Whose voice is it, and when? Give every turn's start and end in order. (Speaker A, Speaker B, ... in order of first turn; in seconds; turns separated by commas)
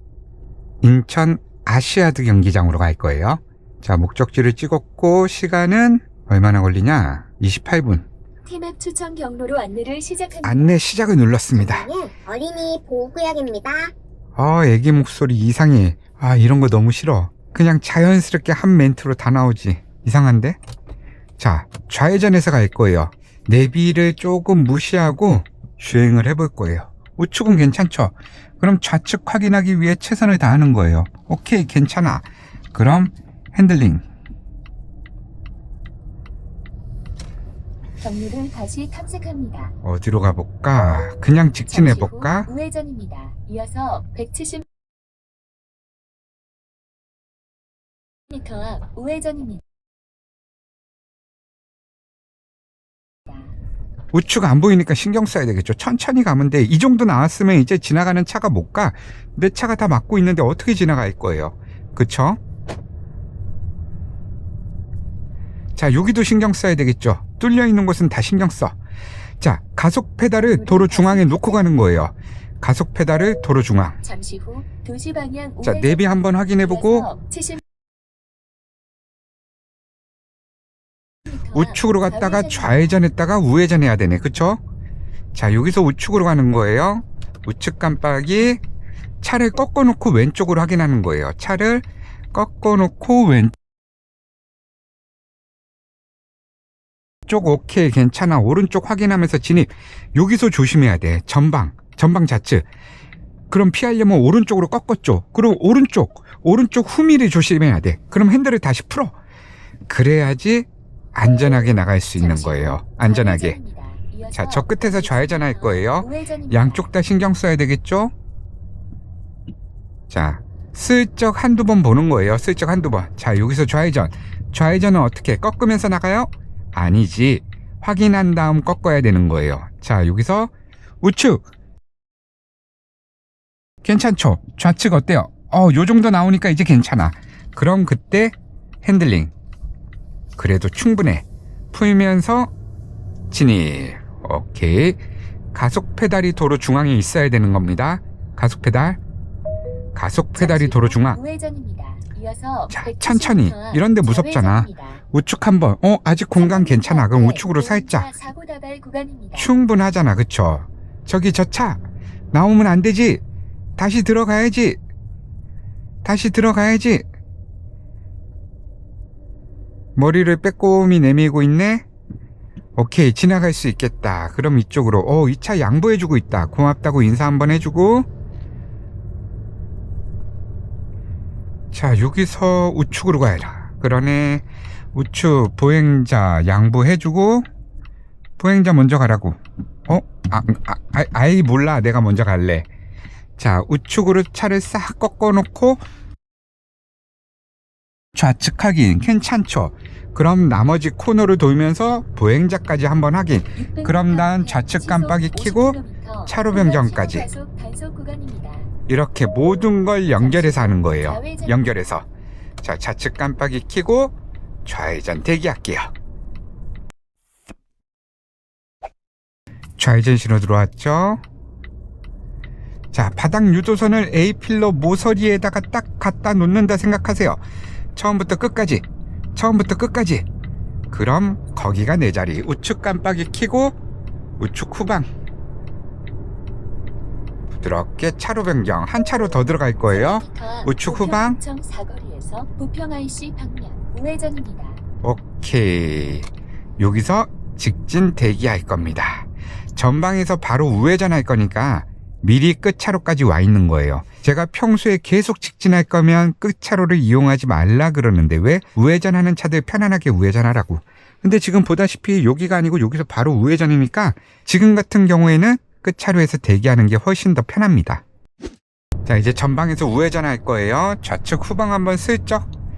Speaker A: 0.8-8.1, Speaker B: 8.4-10.8, Speaker A: 10.4-11.9, Speaker C: 11.5-13.9, Speaker A: 14.4-20.6, Speaker A: 21.4-34.0, Speaker B: 38.0-39.8, Speaker A: 39.8-42.5, Speaker B: 41.7-44.6, Speaker B: 48.3-49.6, Speaker A: 54.1-62.4, Speaker A: 65.8-68.8, Speaker A: 69.4-74.0, Speaker B: 70.4-71.8, Speaker B: 74.0-77.6, Speaker A: 75.6-77.1, Speaker B: 81.3-83.0, Speaker A: 81.5-84.6, Speaker A: 85.3-88.6, Speaker A: 89.2-93.5, Speaker A: 97.3-102.7, Speaker A: 103.5-109.2, Speaker A: 109.9-113.6, Speaker B: 112.2-116.9, Speaker A: 114.3-118.1, Speaker A: 120.1-130.5, Speaker A: 131.0-131.4, Speaker A: 133.8-139.3, Speaker A: 140.4-142.5, Speaker A: 143.3-145.0, Speaker A: 145.5-149.0, Speaker A: 149.9-151.2, Speaker B: 150.3-155.0, Speaker A: 152.7-158.1, Speaker B: 156.3-159.5, Speaker A: 159.3-163.2, Speaker A: 163.8-164.8, Speaker A: 166.0-167.1, Speaker A: 170.0-171.8, Speaker A: 172.8-178.1, Speaker A: 181.7-187.5, Speaker A: 188.4-192.7, Speaker A: 193.4-195.8, Speaker A: 198.2-207.3, Speaker B: 203.6-208.7, Speaker A: 208.9-212.1, Speaker B: 210.1-211.9, Speaker A: 212.6-214.1, Speaker A: 214.7-215.9, Speaker A: 219.8-221.2, Speaker A: 222.9-227.4, Speaker A: 227.9-230.3, Speaker A: 230.9-233.8, Speaker A: 234.4-235.1, Speaker A: 237.5-241.4, Speaker B: 239.9-244.8, Speaker A: 245.0-246.3, Speaker A: 246.8-268.0, Speaker A: 269.1-272.5